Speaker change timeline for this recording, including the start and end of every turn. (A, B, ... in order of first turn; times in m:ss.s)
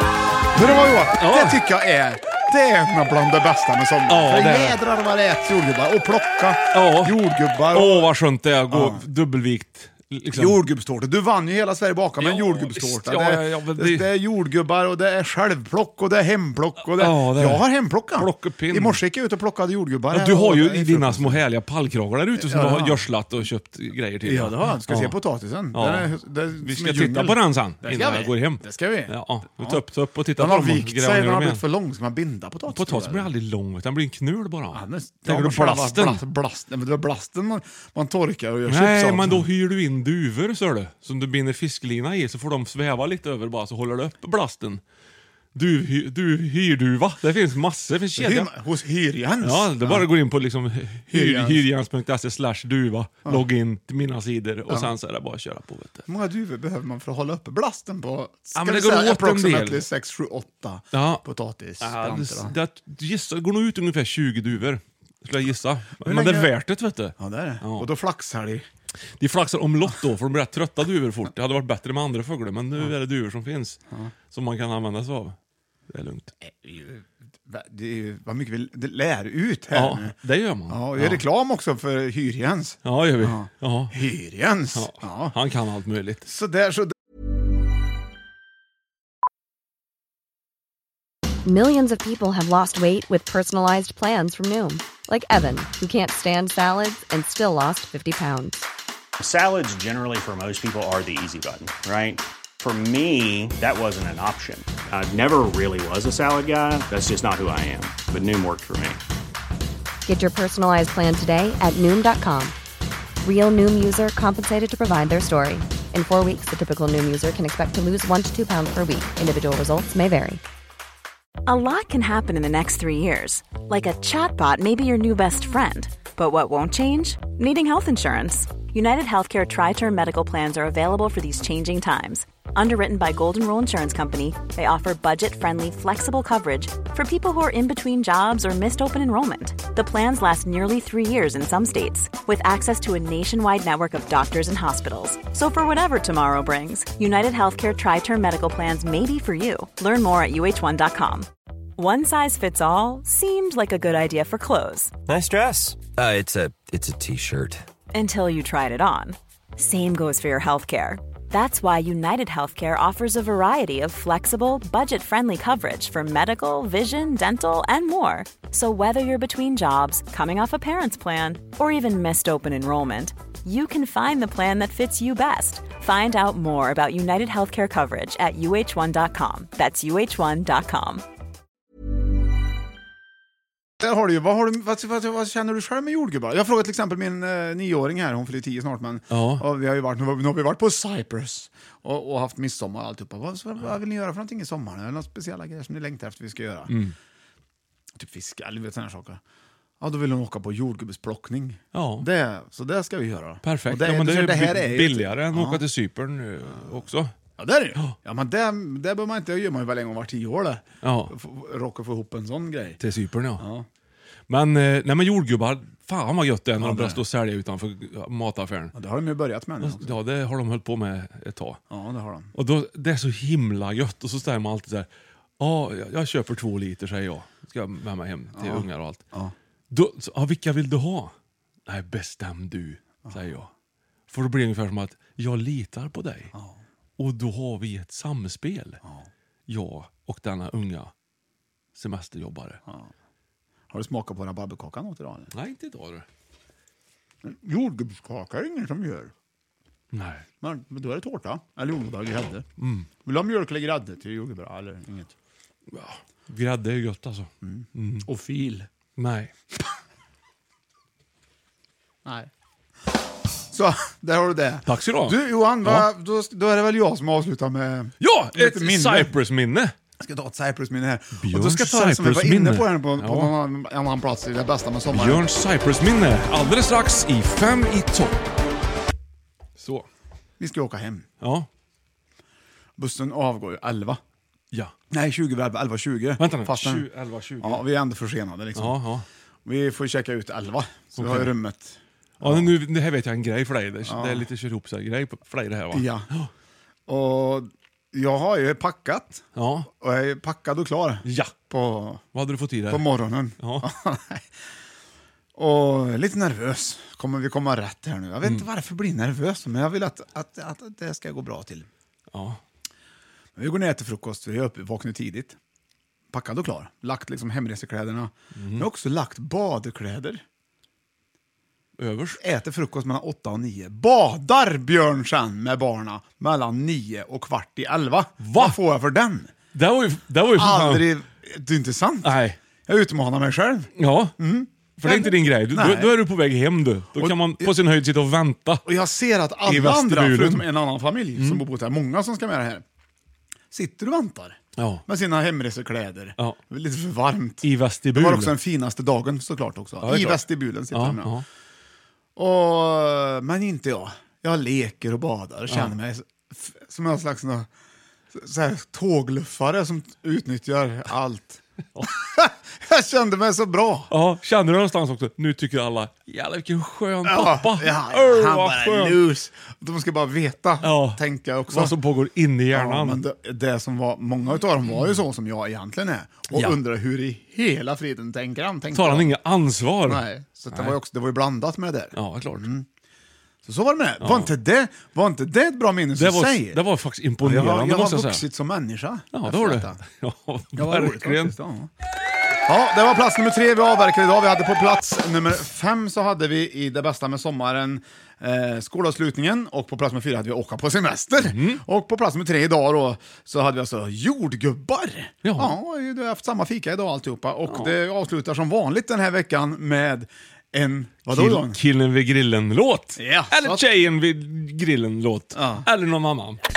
0:00.5-0:08.1 A
0:01.2-0:01.6 B
0:04.1-0:04.8 B
0:06.7-0:07.2 B
0:07.7-0:10.6 B
0:08.7-0:09.0 A
0:10.3-0:21.4 A
0:12.2-0:14.1 B
0:16.9-0:19.0 B
0:20.1-0:25.2 B
0:22.4-0:23.0 A
0:24.2-0:29.8 A
0:25.7-0:31.6 B
0:30.4-0:33.3 A
0:32.7-0:36.2 B
0:34.7-0:39.5 A
0:38.7-0:44.8 B
0:45.6-0:48.5 B
0:48.2-0:50.1 A
0:49.4-0:56.1 B
0:51.1-0:51.7 A
0:56.1-1:02.6 A
0:58.6-0:59.8 B
1:00.9-1:01.2 B
1:01.8-1:07.9 B
1:06.0-1:06.5 A
1:07.2-1:08.6 A
1:09.2-1:13.8 B
1:14.3-1:15.4 B
1:15.9-1:16.3 B
1:16.4-1:20.2 A
1:19.7-1:21.2 B
1:20.7-1:25.4 A
1:22.8-1:24.0 B
1:24.7-1:26.2 B
1:26.3-1:26.9 A
1:31.5-1:38.6 C
1:39.2-1:49.0 D
1:50.1-1:52.5 C
1:53.2-2:00.4 C
2:01.5-2:34.9 E
2:35.1-2:37.6 F
2:37.9-3:01.0 E
3:03.8-3:16.8 A
3:09.1-3:09.4 B
3:16.7-3:16.9 B
3:18.0-3:19.2 A
3:19.8-3:25.6 A
3:21.7-3:22.1 B
3:23.4-3:27.1 B
3:27.4-3:32.8 A
3:30.8-3:31.1 B
3:32.8-3:33.4 B
3:33.4-3:33.7 A
3:34.3-3:38.7 B
3:36.6-3:37.0 A
3:38.7-3:40.0 A
3:39.6-3:41.6 B
3:41.7-3:42.3 A
3:42.3-3:44.9 B
3:45.4-3:49.0 B
3:48.3-3:49.3 A
3:49.7-3:51.1 B
3:51.7-3:53.5 B
3:54.1-3:56.3 B
3:56.3-3:56.6 A
3:57.0-3:58.8 B
3:59.5-4:00.9 B
4:01.8-4:02.6 B
4:03.7-4:05.3 A
4:05.3-4:06.1 B
4:07.2-4:09.1 A
4:09.9-4:10.2 B
4:10.4-4:12.4 A
4:12.6-4:12.9 B
4:13.0-4:15.1 A
4:15.7-4:18.1 B
4:17.4-4:18.7 A
4:19.0-4:19.3 B
4:22.0-4:22.3 A
4:23.5-4:29.1 A
4:24.6-4:25.9 B
4:28.0-4:29.7 B
4:30.0-4:35.2 A
4:31.2-4:33.3 B
4:34.9-4:38.2 B
4:39.6-4:39.9 B
4:40.4-4:41.1 A
4:41.2-4:41.5 B
4:42.8-4:44.0 A
4:44.9-4:46.9 A
4:46.2-4:47.6 B
4:47.4-4:48.8 A
4:48.6-4:49.1 B
4:49.4-4:52.5 A
4:51.0-4:51.3 B
4:52.2-4:56.3 B
4:53.8-4:54.3 A
4:55.7-4:56.1 A
4:56.9-4:59.2 A
4:59.4-4:59.7 B
4:59.8-5:02.0 A
5:01.0-5:01.3 B
5:02.1-5:02.8 B
5:02.7-5:04.2 A
5:03.4-5:03.7 B
5:05.4-5:11.7 A
5:12.1-5:12.4 B
5:13.4-5:15.4 A
5:16.1-5:20.2 A
5:18.4-5:18.7 B
5:21.8-5:22.2 B
5:22.2-5:29.3 A
5:28.2-5:28.6 B
5:29.5-5:30.9 B
5:30.3-5:36.0 A
5:32.0-5:32.4 B
5:33.8-5:34.1 B
5:34.8-5:38.6 B
5:37.0-5:37.5 A
5:38.6-5:42.6 A
5:39.4-5:40.5 B
5:41.2-5:41.4 B
5:43.5-5:51.2 A
5:44.6-5:44.8 B
5:47.4-5:48.4 B
5:49.8-5:51.2 B
5:52.2-5:57.5 A
5:55.5-5:55.8 B
5:58.1-6:03.9 A
6:03.9-6:09.0 B
6:07.0-6:11.8 A
6:10.6-6:13.0 B
6:12.5-6:19.2 A
6:16.3-6:16.6 B
6:18.7-6:20.8 B
6:19.8-6:22.7 A
6:21.9-6:22.5 B
6:23.4-6:26.6 A
6:24.0-6:24.4 B
6:26.0-6:28.2 B
6:27.2-6:29.8 A
6:29.1-6:31.4 B
6:30.6-6:31.7 A
6:32.4-6:51.6 A
6:41.2-6:41.6 B
6:45.2-6:45.6 B
6:47.5-6:47.7 B
6:51.1-6:56.4 B
6:53.0-6:53.6 A
6:55.3-6:55.7 A